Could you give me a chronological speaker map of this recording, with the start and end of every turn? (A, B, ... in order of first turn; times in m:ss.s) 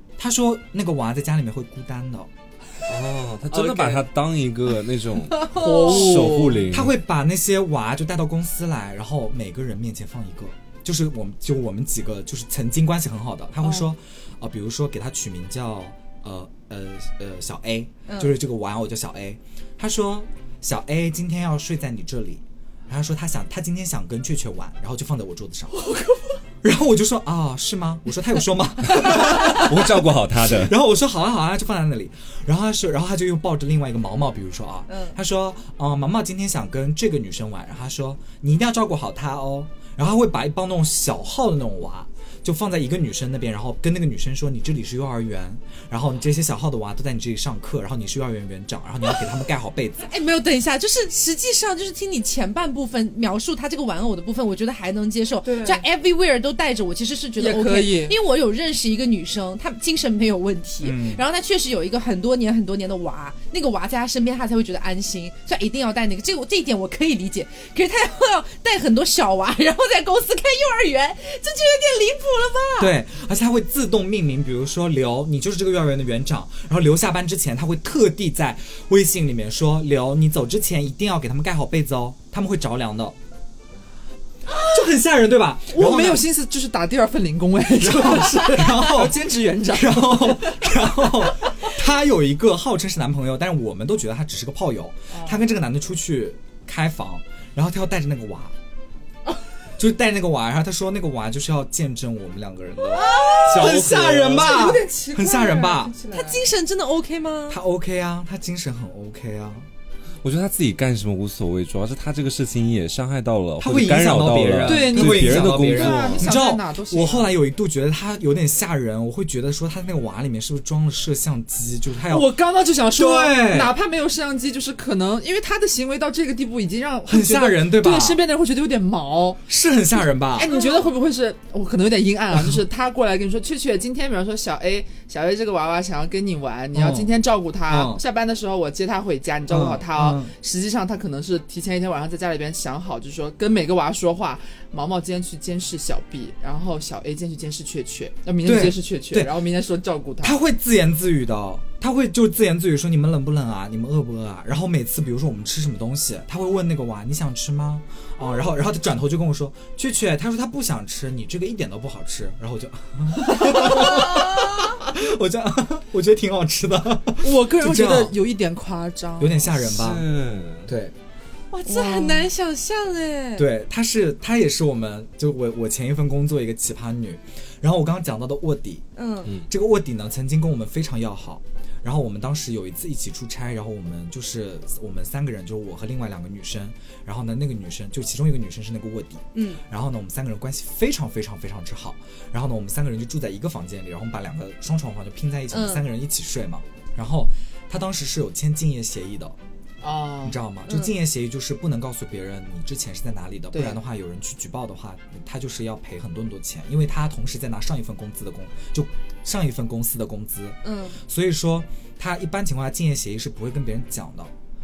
0:00.2-0:02.3 A
0:02.9-0:06.9 B
0:05.4-0:06.7 C
0:05.9-0:25.9 A
0:18.1-0:18.3 D
0:25.8-0:26.4 C
0:26.6-0:50.1 A
0:28.9-0:30.7 B
0:34.9-0:35.2 D
0:50.0-1:12.9 D
0:55.4-0:55.9 C
0:57.4-0:58.2 C
1:00.8-1:01.2 A
1:12.8-1:23.2 A
1:24.6-1:26.2 A
1:25.7-1:31.5 C
1:27.8-1:38.5 A
1:35.1-1:35.4 C
1:39.8-1:46.0 A
1:42.9-1:46.4 C
1:43.0-1:43.4 D
1:43.4-1:44.7 B
1:46.1-1:47.6 D
1:47.5-1:49.7 A
1:50.2-1:56.4 B
1:53.6-2:02.3 A
1:54.6-1:57.3 C
2:02.0-2:09.4 C
2:02.9-2:03.8 A
2:07.0-2:08.2 A
2:09.5-2:10.5 A
2:10.3-2:30.4 C
2:10.4-2:10.9 D
2:12.3-2:12.6 A
2:16.7-2:17.1 A
2:17.6-2:18.0 A
2:19.5-2:20.3 A
2:28.4-2:29.4 A
2:30.2-2:48.2 A
2:43.4-2:43.8 C
2:43.6-2:44.6 D
2:47.2-2:49.7 C
2:49.2-2:50.0 A
2:49.6-2:50.7 B
2:50.6-2:50.9 A
2:51.5-2:53.5 D
2:51.6-2:52.3 C
2:53.4-2:58.8 A
2:59.0-2:59.3 D
2:59.5-3:19.4 A
3:09.3-3:09.6 D
3:15.5-3:15.8 D
3:19.8-3:20.4 C
3:20.2-3:34.3 A
3:20.7-3:20.9 D
3:23.5-3:23.8 C
3:30.6-3:31.0 D